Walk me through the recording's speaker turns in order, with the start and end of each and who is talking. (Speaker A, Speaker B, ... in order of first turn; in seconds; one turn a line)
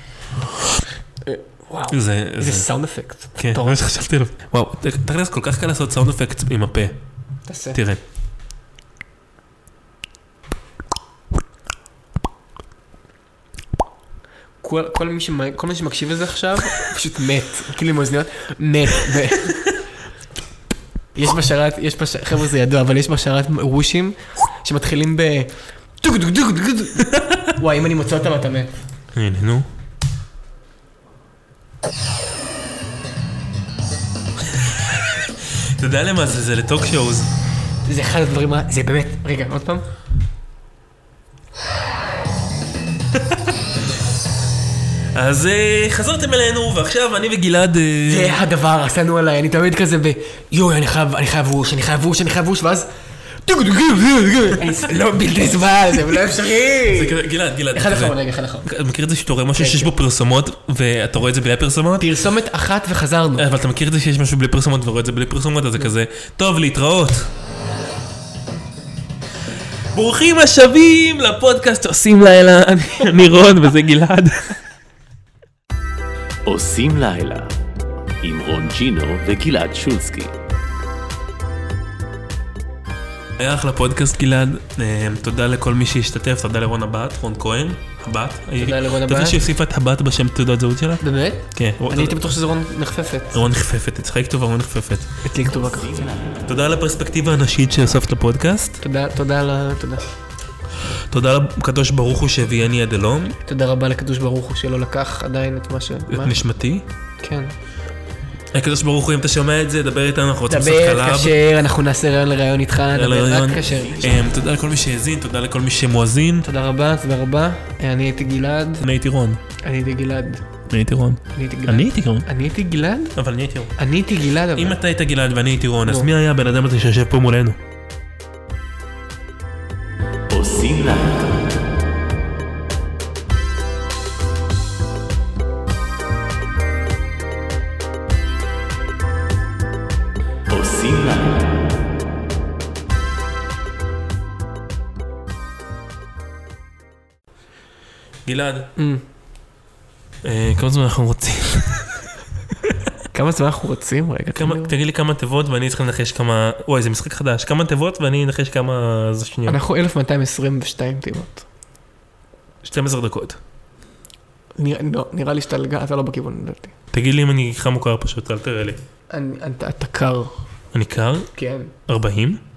Speaker A: 1.2-3.8
Speaker B: 1.9-2.7
Speaker B: 3.4-7.0
Speaker A: 7.5-7.8
Speaker B: 7.7-8.0
Speaker A: 14.6-19.6
Speaker A: 21.1-28.7
Speaker B: 29.1-29.7
Speaker B: 34.6-37.3
Speaker A: 37.8-39.9
Speaker B: 45.1-48.4
Speaker A: 48.1-52.9
Speaker A: 53.4-58.7
Speaker B: 56.8-62.2
Speaker A: 59.5-59.9
Speaker A: 62.0-63.5
Speaker B: 63.4-67.3
Speaker B: 69.9-74.6
Speaker C: 76.5-77.5
Speaker C: 78.2-80.3
Speaker B: 83.4-92.3
Speaker A: 88.6-89.4
Speaker A: 91.0-93.5
Speaker B: 93.3-95.1
Speaker A: 95.2-95.9
Speaker C: 95.5-96.5
Speaker B: 96.5-98.8
Speaker A: 98.8-100.1
Speaker B: 101.1-103.4
Speaker A: 103.5-106.4
Speaker B: 106.1-106.8
Speaker A: 107.2-107.5
Speaker B: 108.5-111.4
Speaker A: 110.5-114.2
Speaker B: 112.9-116.5
Speaker A: 116.4-118.9
Speaker B: 118.8-119.4
Speaker A: 119.6-120.5
Speaker B: 120.7-122.3
Speaker A: 121.3-123.1
Speaker B: 123.2-123.8
Speaker A: 123.8-124.8
Speaker B: 124.5-127.6
Speaker A: 125.8-126.1
Speaker C: 130.3-131.6
Speaker C: 140.5-141.7
Speaker B: 148.3-148.7
Speaker A: 148.8-149.0
Speaker B: 150.2-152.1
Speaker A: 153.1-154.7
Speaker B: 154.3-159.6
Speaker A: 159.4-161.4
Speaker B: 162.6-163.4
Speaker A: 164.6-166.7
Speaker B: 166.9-168.8
Speaker A: 169.1-170.4
Speaker B: 170.7-171.3
Speaker A: 171.3-171.7
Speaker B: 171.9-172.4